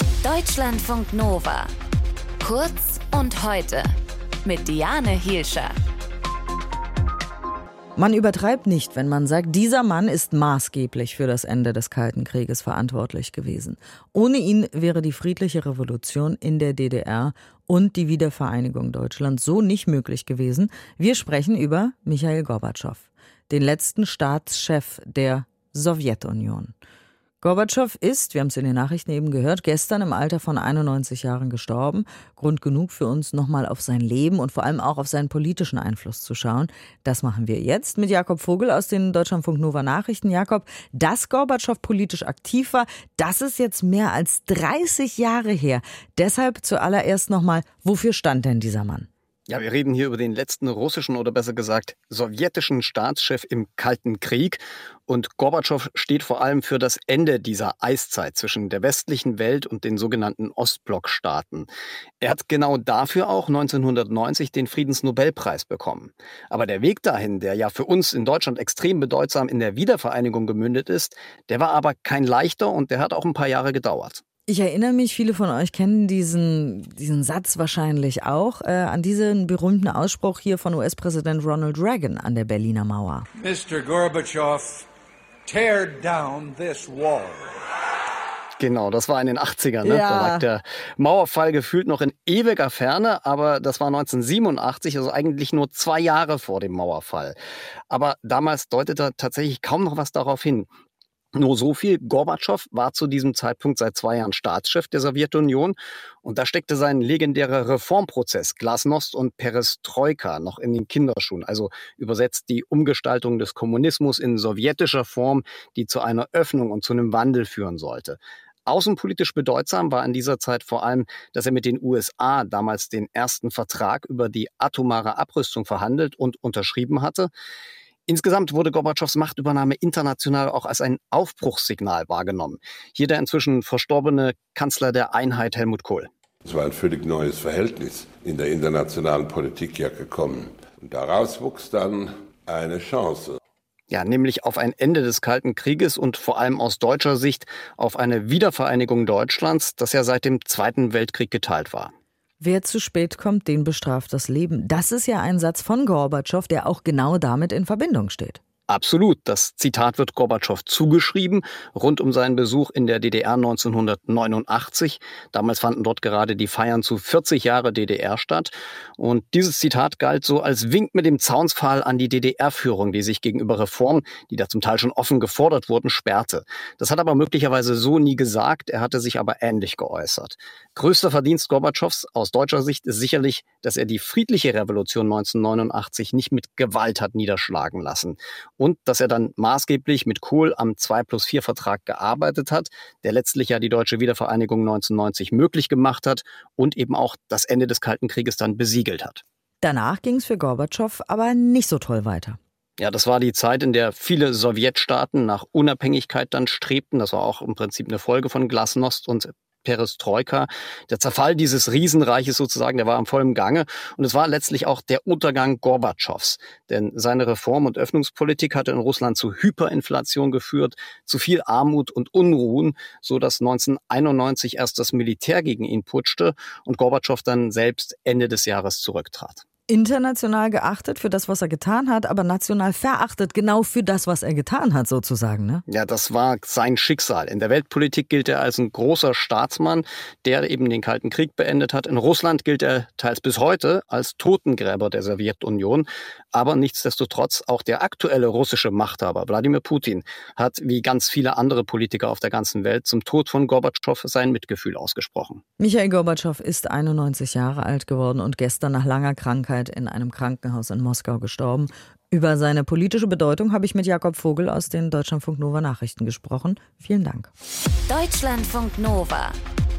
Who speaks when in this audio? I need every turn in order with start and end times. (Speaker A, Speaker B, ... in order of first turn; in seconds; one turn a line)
Speaker A: 0.2-1.7
Speaker A: 2.4-3.9
Speaker A: 4.4-5.7
Speaker B: 8.0-26.7
Speaker B: 27.4-49.1
Speaker C: 49.5-61.7
Speaker C: 62.2-74.2
Speaker B: 74.5-83.3
Speaker D: 83.4-84.9
Speaker D: 85.5-87.6
Speaker C: 88.6-97.4
Speaker B: 89.8-90.5
Speaker C: 97.9-100.7
Speaker C: 101.3-127.3
Speaker C: 128.1-136.1
Speaker E: 136.4-143.4
Speaker C: 143.9-151.9
Speaker B: 152.4-158.4
Speaker C: 158.7-199.2
Speaker B: 199.6-202.4
Speaker C: 202.8-229.4
Speaker B: 229.7-235.6
Speaker C: 235.7-255.4
Speaker B: 255.6-267.3
Speaker A: 267.9-269.4